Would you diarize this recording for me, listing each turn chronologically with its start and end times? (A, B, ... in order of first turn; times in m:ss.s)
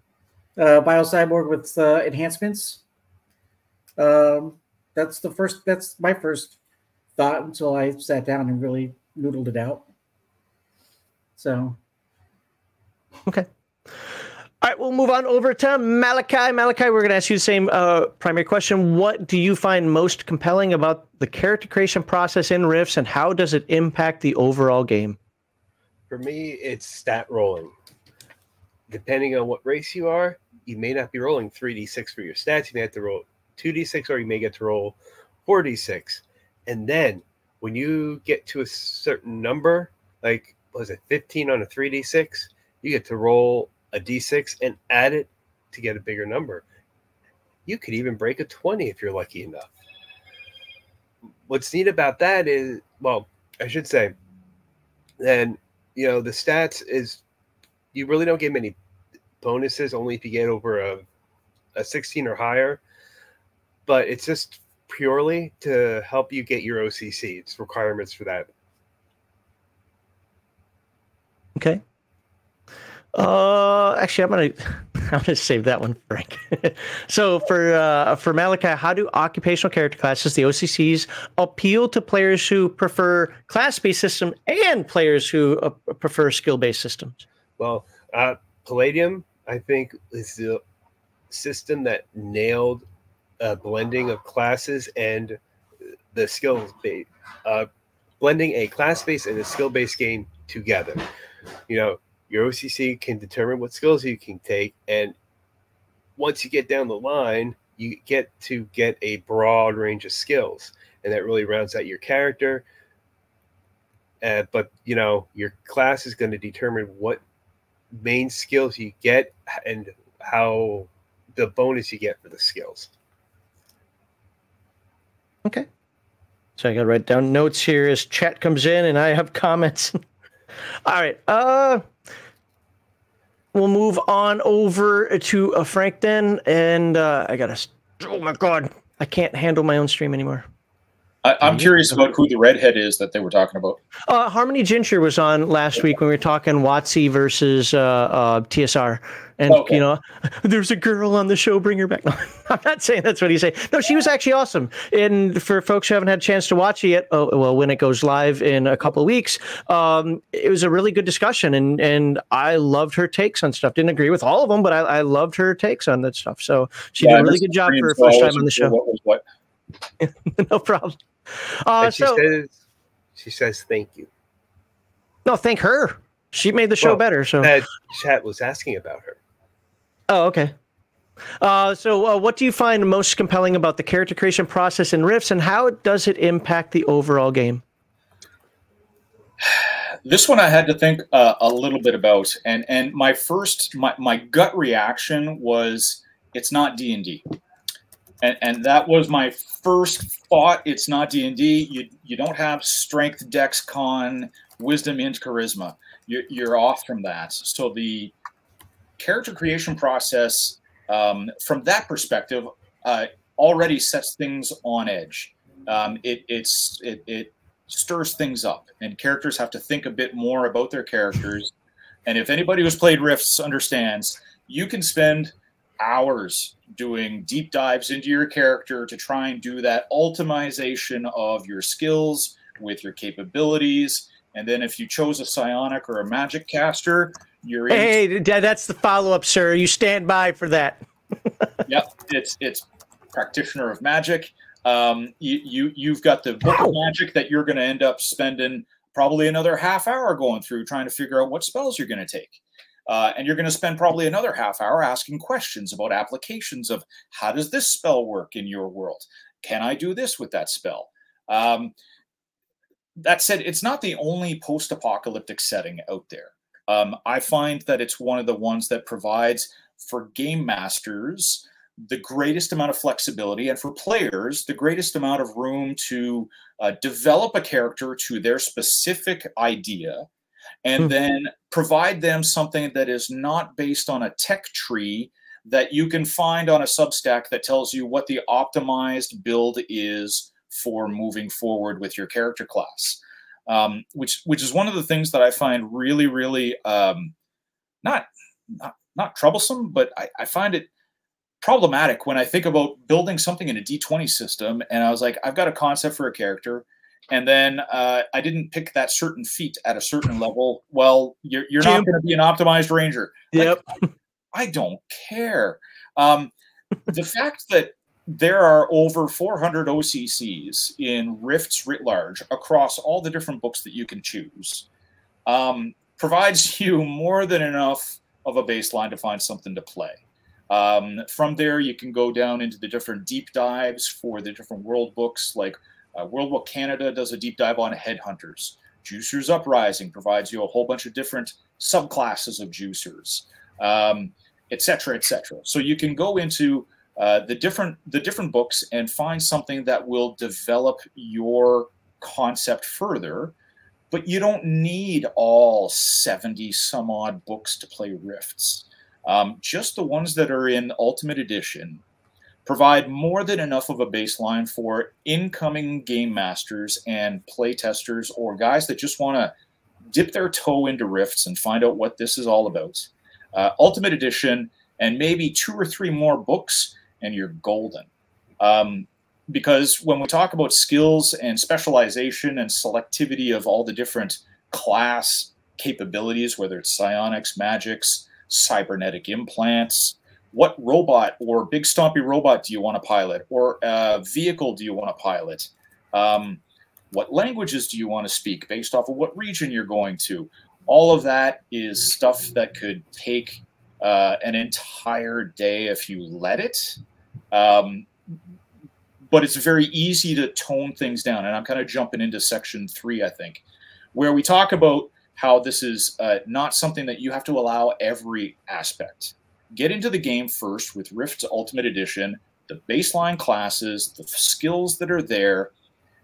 0:00.6-0:02.8 A
0:04.0-0:06.6 A
0:07.2-0:09.8 A
0:11.4-0:11.8 A
0:14.6-0:25.2 B
0:26.1-0:27.7 C
0:28.9-0:46.6 C
0:47.6-0:49.7 C
0:51.5-0:54.1 C
0:55.2-0:57.2 C
0:57.9-0:58.8 C
0:59.4-1:01.0 C
1:01.7-1:02.8 C
1:03.8-1:08.5 C
1:11.6-1:11.8 B
1:13.1-1:27.2 B
1:27.6-1:30.6 C
1:31.3-1:32.8 C
1:33.4-1:35.4 C
1:36.1-1:37.7 C
1:38.2-1:41.0 C
1:41.7-1:45.2 C
1:46.2-1:52.6 C
1:54.2-1:57.2 C
1:57.9-2:02.9 C
2:06.6-2:10.0 B
2:10.8-2:11.8 B
2:13.5-2:20.4 B
2:21.2-2:23.8 D
2:24.1-2:48.7 B
2:29.5-2:29.8 D
2:47.0-2:49.2 D
2:50.0-2:52.2 B
2:51.8-2:52.6 C
2:53.2-2:54.1 C
2:55.2-2:57.6 B
2:56.8-2:59.2 C
3:00.1-3:00.5 B
3:01.4-3:07.6 B
3:09.5-3:17.2 D
3:18.2-3:28.1 D
3:29.0-3:41.5 D
3:42.0-3:58.0 D
3:57.7-4:01.6 B
4:01.6-4:21.7 D
4:23.0-4:40.1 D
4:40.6-4:57.1 D
4:57.8-5:00.7 D
5:01.4-5:13.6 D
5:11.6-5:11.9 B
5:13.3-5:13.7 B
5:14.3-5:16.3 D
5:16.9-5:24.7 D
5:25.2-5:30.0 D
5:30.5-5:53.3 D
5:53.9-6:01.8 D
6:02.4-6:09.3 D
6:09.9-6:17.9 D
6:18.4-6:46.8 D
6:47.3-6:47.9 D
6:49.1-6:53.4 D
6:53.9-7:05.5 D